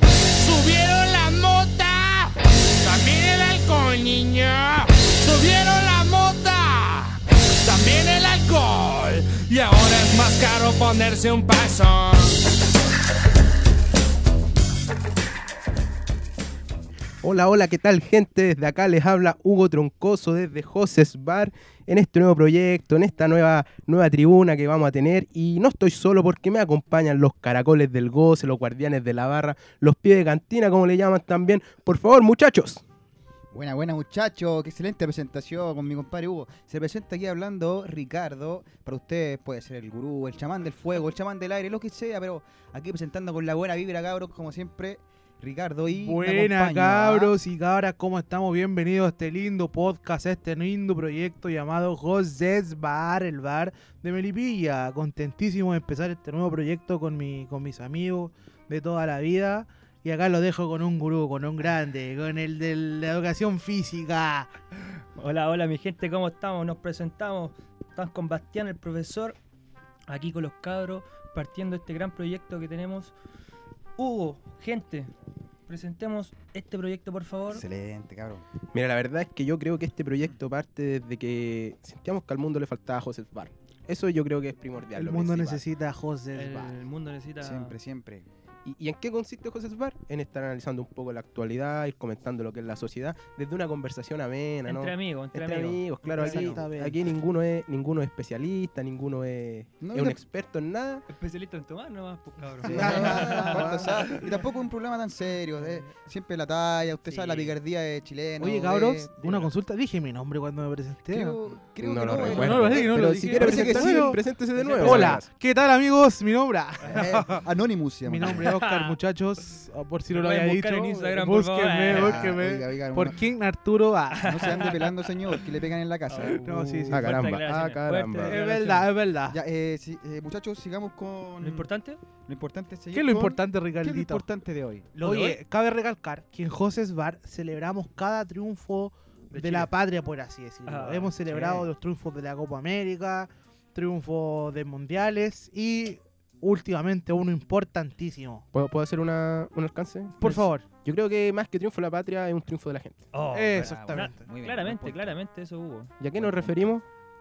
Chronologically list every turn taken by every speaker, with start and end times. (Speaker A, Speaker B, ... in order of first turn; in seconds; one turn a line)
Speaker A: 0.2-12.4
Speaker B: 17.2-32.8
Speaker C: 33.5-47.4
Speaker D: 46.0-64.5
Speaker E: 64.9-69.4
Speaker E: 70.1-73.1
Speaker E: 74.0-75.1
Speaker E: 75.7-77.6
Speaker C: 77.5-78.4
Speaker B: 78.7-85.6
Speaker D: 84.9-86.8
Speaker E: 86.3-87.7
Speaker C: 87.4-88.2
Speaker B: 88.6-101.0
Speaker E: 94.7-96.4
Speaker D: 96.0-97.0
Speaker C: 96.2-96.5
Speaker C: 99.8-100.2
Speaker E: 101.1-104.4
Speaker D: 102.6-103.9
Speaker C: 102.6-109.5
Speaker E: 105.6-105.9
Speaker E: 107.1-107.5
Speaker D: 108.4-111.4
Speaker C: 111.1-115.2
Speaker B: 111.8-115.3
Speaker D: 112.2-114.2
Speaker D: 114.8-117.5
Speaker E: 116.8-117.1
Speaker C: 116.8-118.5
Speaker D: 118.0-124.4
Speaker E: 118.2-119.0
Speaker E: 120.1-122.4
Speaker C: 121.9-123.2
Speaker E: 124.1-125.4
Speaker C: 124.2-126.4
Speaker E: 126.1-128.9
Speaker D: 126.3-127.3
Speaker B: 126.9-128.4
Speaker D: 128.2-129.4
Speaker C: 129.3-131.7
Speaker E: 131.4-132.0
Speaker C: 132.2-134.9
Speaker D: 132.9-134.2
Speaker E: 134.9-135.4
Speaker D: 135.0-148.4
Speaker E: 139.3-139.7
Speaker E: 140.7-141.6
Speaker C: 141.3-141.7
Speaker B: 148.5-153.1
Speaker E: 150.2-150.4
Speaker D: 150.2-150.7
Speaker E: 153.1-155.9
Speaker D: 153.3-154.3
Speaker C: 153.5-155.2
Speaker B: 156.0-156.8
Speaker C: 156.1-156.6